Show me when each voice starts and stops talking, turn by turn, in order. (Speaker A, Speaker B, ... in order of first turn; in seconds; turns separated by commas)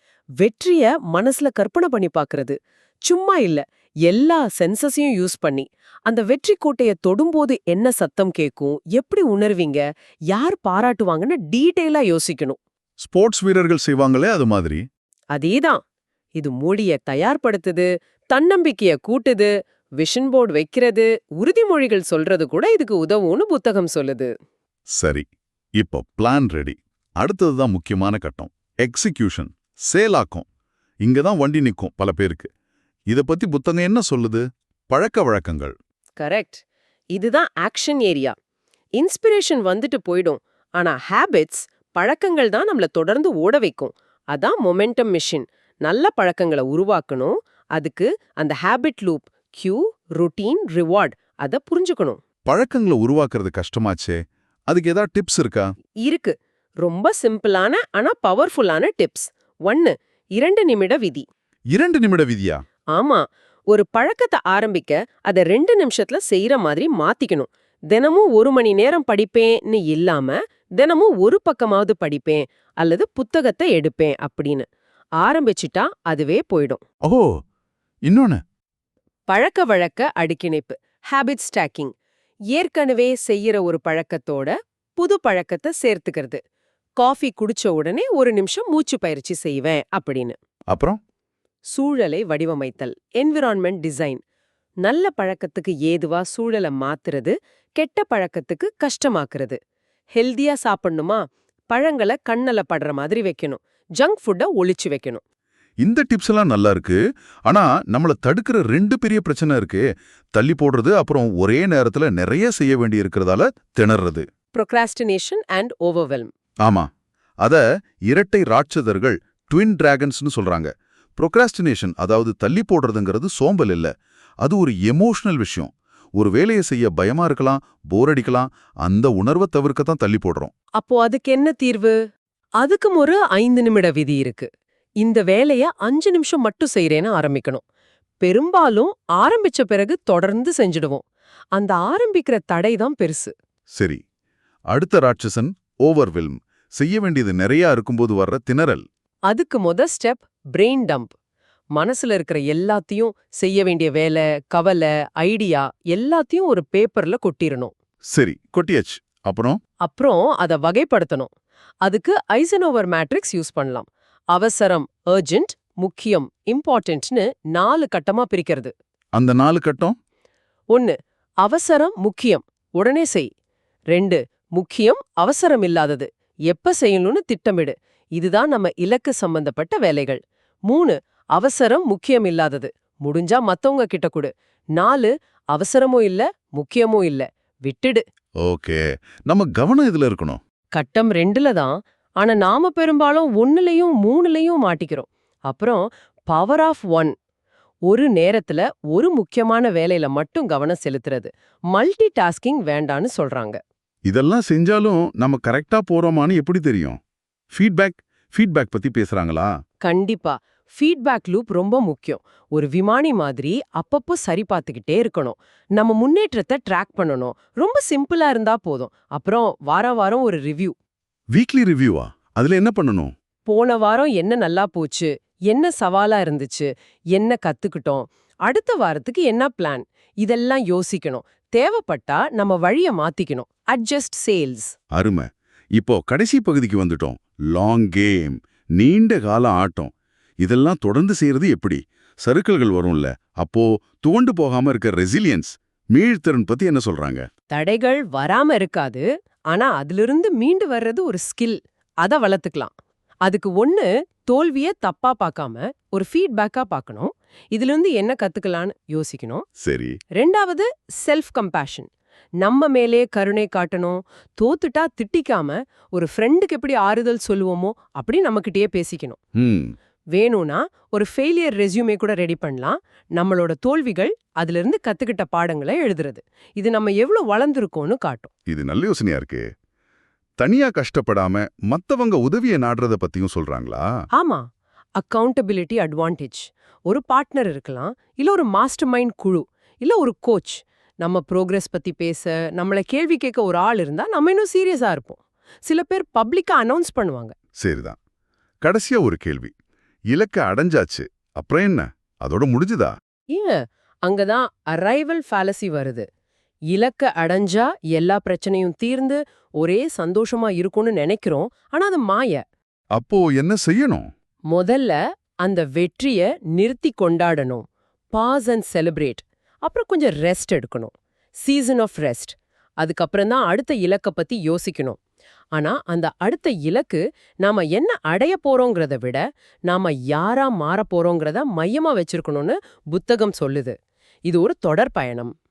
Speaker A: 0.4-12.6, Speaker B: 13.0-14.8, Speaker A: 15.3-15.8, Speaker A: 16.4-24.3, Speaker B: 25.0-25.2, Speaker B: 25.8-30.5, Speaker B: 31.0-32.5, Speaker B: 33.1-35.7, Speaker A: 36.2-36.6, Speaker A: 37.1-38.4, Speaker A: 39.0-52.2, Speaker B: 52.5-55.7, Speaker A: 56.0-61.3, Speaker B: 61.8-62.6, Speaker A: 62.9-74.7, Speaker A: 75.2-76.8, Speaker B: 77.0-77.3, Speaker B: 78.1-78.4, Speaker A: 79.3-81.9, Speaker A: 82.5-86.4, Speaker A: 87.0-90.4, Speaker B: 90.7-91.0, Speaker A: 91.7-94.2, Speaker A: 94.8-99.6, Speaker A: 100.2-105.2, Speaker B: 105.8-109.8, Speaker B: 110.3-114.3, Speaker A: 114.5-116.3, Speaker B: 117.4-123.9, Speaker B: 124.4-130.5, Speaker A: 130.8-131.9, Speaker A: 132.6-134.5, Speaker A: 135.0-137.6, Speaker A: 138.2-141.0, Speaker A: 141.6-143.3, Speaker B: 144.7-148.8, Speaker A: 149.3-151.1, Speaker A: 151.8-157.7, Speaker B: 158.1-159.6, Speaker A: 159.8-161.3, Speaker A: 161.8-168.7, Speaker B: 169.2-169.9, Speaker A: 170.7-173.3, Speaker A: 173.9-188.0, Speaker B: 188.4-190.4, Speaker A: 190.8-197.1, Speaker A: 197.9-203.6, Speaker B: 204.1-207.0, Speaker B: 207.5-209.5, Speaker A: 209.8-220.8, Speaker B: 221.3-223.1, Speaker A: 223.5-234.8, Speaker B: 234.9-247.3, Speaker A: 247.5-252.7, Speaker A: 253.3-259.5, Speaker B: 259.6-260.0, Speaker A: 260.2-261.9, Speaker A: 262.4-269.2, Speaker B: 269.4-269.7, Speaker A: 270.1-278.3, Speaker B: 278.5-279.4, Speaker B: 280.4-283.9, Speaker A: 284.2-284.4, Speaker A: 285.0-297.4, Speaker B: 297.6-298.0, Speaker B: 298.6-299.5, Speaker B: 300.1-302.9, Speaker A: 303.3-306.1, Speaker A: 306.7-312.4, Speaker B: 313.0-314.1, Speaker A: 314.5-320.9, Speaker A: 321.4-325.0, Speaker A: 325.6-335.3